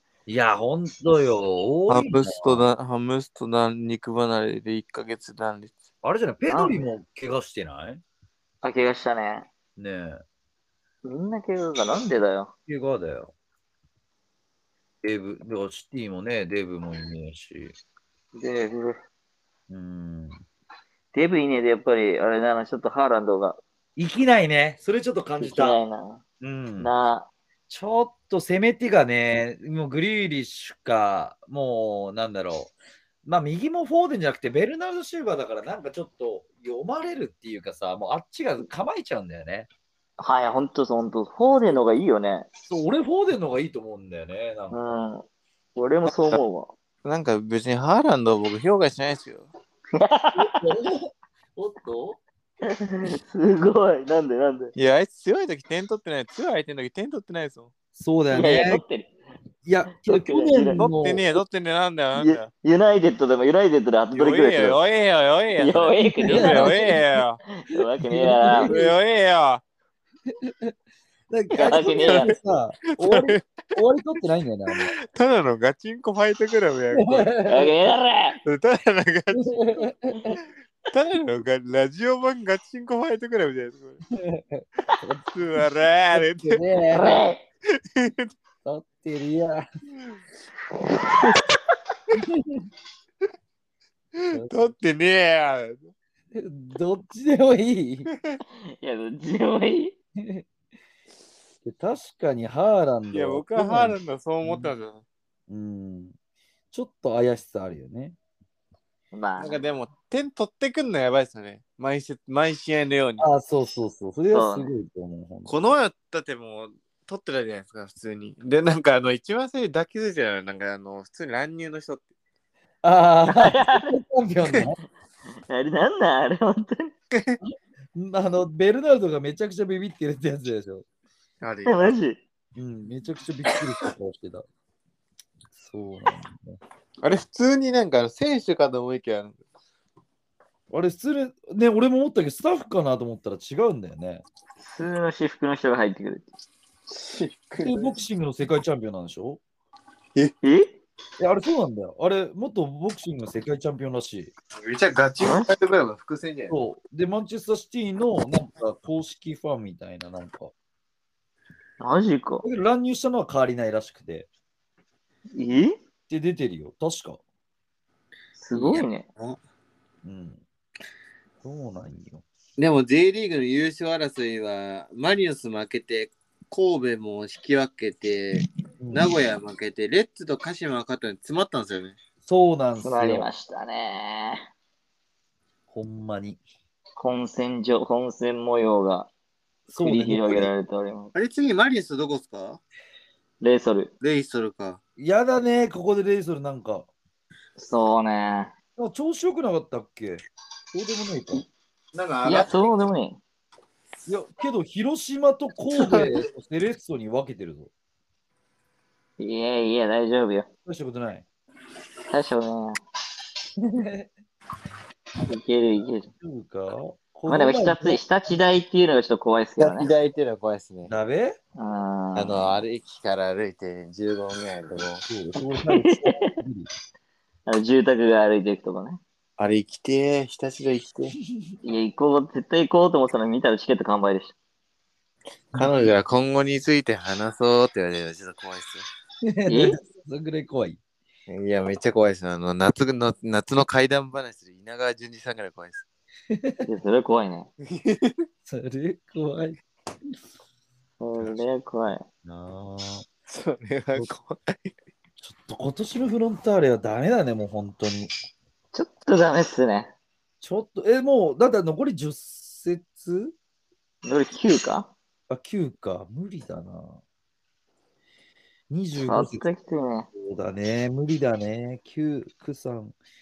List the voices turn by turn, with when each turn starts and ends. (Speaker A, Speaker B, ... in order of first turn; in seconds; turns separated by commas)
Speaker A: 0.3-2.6, Speaker B: 1.9-5.8, Speaker A: 6.0-8.0, Speaker C: 6.5-6.8, Speaker C: 8.6-9.5, Speaker A: 9.8-10.2, Speaker C: 11.0-12.5, Speaker A: 12.7-13.3, Speaker A: 15.0-17.8, Speaker C: 18.4-19.0, Speaker A: 19.7-20.4, Speaker C: 21.1-23.6, Speaker A: 24.0-25.8, Speaker C: 25.4-26.2, Speaker A: 26.4-26.9, Speaker C: 26.8-27.3, Speaker A: 27.7-32.7, Speaker A: 33.2-39.7, Speaker C: 40.2-42.5, Speaker A: 42.7-44.8, Speaker C: 44.7-46.7, Speaker B: 47.0-49.5, Speaker C: 49.9-50.6, Speaker A: 50.4-52.2, Speaker C: 52.6-54.7, Speaker B: 54.8-57.7, Speaker A: 58.0-58.8, Speaker C: 58.3-59.1, Speaker A: 59.6-61.4, Speaker C: 60.0-60.9, Speaker B: 60.8-62.5, Speaker C: 62.6-64.8, Speaker B: 64.1-67.4, Speaker C: 65.6-67.0, Speaker A: 66.0-66.9, Speaker C: 67.6-68.7, Speaker A: 68.0-69.0, Speaker B: 68.7-69.6, Speaker A: 70.3-70.7, Speaker A: 71.3-75.0, Speaker C: 71.5-72.4, Speaker B: 72.1-72.4, Speaker B: 72.9-73.6, Speaker B: 74.7-77.3, Speaker A: 77.0-77.7, Speaker C: 77.5-78.4, Speaker B: 78.4-79.8, Speaker A: 79.3-80.4, Speaker B: 80.9-84.0, Speaker A: 84.2-87.2, Speaker B: 85.3-86.6, Speaker C: 86.9-87.4, Speaker B: 87.8-88.3, Speaker A: 88.7-89.7, Speaker A: 92.1-92.7, Speaker B: 94.2-95.9, Speaker A: 94.3-94.7, Speaker A: 96.3-98.1, Speaker B: 98.1-98.4, Speaker C: 98.8-100.0, Speaker A: 100.2-100.4, Speaker A: 101.7-104.7, Speaker B: 103.1-105.0, Speaker A: 105.5-106.2, Speaker A: 106.7-108.2, Speaker C: 109.1-109.6, Speaker B: 109.4-113.3, Speaker A: 113.2-115.6, Speaker C: 114.3-114.7, Speaker B: 115.5-122.1, Speaker A: 122.8-124.8, Speaker C: 123.3-124.0, Speaker C: 125.5-126.9, Speaker B: 127.1-127.4, Speaker A: 127.5-130.8, Speaker B: 131.4-132.0, Speaker C: 131.7-132.2, Speaker A: 132.6-134.5, Speaker A: 135.6-136.6, Speaker B: 137.0-139.4, Speaker A: 140.7-144.2, Speaker C: 144.6-146.3, Speaker B: 146.9-148.0, Speaker A: 147.6-149.4, Speaker C: 150.4-150.8, Speaker A: 151.2-154.3, Speaker B: 154.6-156.5, Speaker C: 155.2-155.5, Speaker A: 156.5-160.5, Speaker C: 161.8-162.5, Speaker A: 162.4-164.3, Speaker C: 165.3-165.8, Speaker A: 166.1-167.2, Speaker C: 168.3-169.1, Speaker B: 168.5-169.4, Speaker A: 170.0-170.4, Speaker A: 171.4-172.2, Speaker B: 172.6-182.0, Speaker A: 178.8-179.2, Speaker A: 182.2-183.3, Speaker C: 182.8-184.4, Speaker A: 185.7-186.4, Speaker C: 187.0-189.1, Speaker A: 189.7-190.5, Speaker C: 189.8-191.1, Speaker B: 191.2-192.6, Speaker C: 193.4-193.9, Speaker B: 194.0-194.8, Speaker A: 195.0-196.9, Speaker C: 197.6-198.5, Speaker A: 198.8-201.4, Speaker B: 201.9-202.7, Speaker C: 202.2-203.2, Speaker A: 204.1-207.7, Speaker B: 205.8-206.1, Speaker C: 209.2-210.5, Speaker A: 210.7-211.3, Speaker C: 212.1-212.8, Speaker A: 213.6-214.1, Speaker C: 215.3-216.1, Speaker A: 216.2-218.0, Speaker C: 217.3-219.9, Speaker B: 219.6-220.9, Speaker A: 220.9-221.4, Speaker C: 221.6-222.6, Speaker B: 222.2-225.0, Speaker A: 225.1-226.7, Speaker C: 225.7-226.3, Speaker C: 227.5-229.0, Speaker B: 229.4-231.2, Speaker C: 231.6-234.3, Speaker A: 235.5-235.9, Speaker B: 235.5-238.9, Speaker A: 239.2-240.8, Speaker C: 239.5-239.8, Speaker B: 241.3-245.8, Speaker A: 246.3-246.6, Speaker C: 246.7-247.5, Speaker B: 247.6-248.2, Speaker A: 248.5-249.6, Speaker C: 251.0-252.0, Speaker A: 252.2-253.1, Speaker B: 253.3-254.8, Speaker A: 255.2-258.1, Speaker C: 258.7-259.9, Speaker A: 260.4-263.4, Speaker C: 264.0-264.9, Speaker A: 265.3-267.0, Speaker A: 268.7-269.5, Speaker C: 269.0-270.1, Speaker A: 270.2-272.9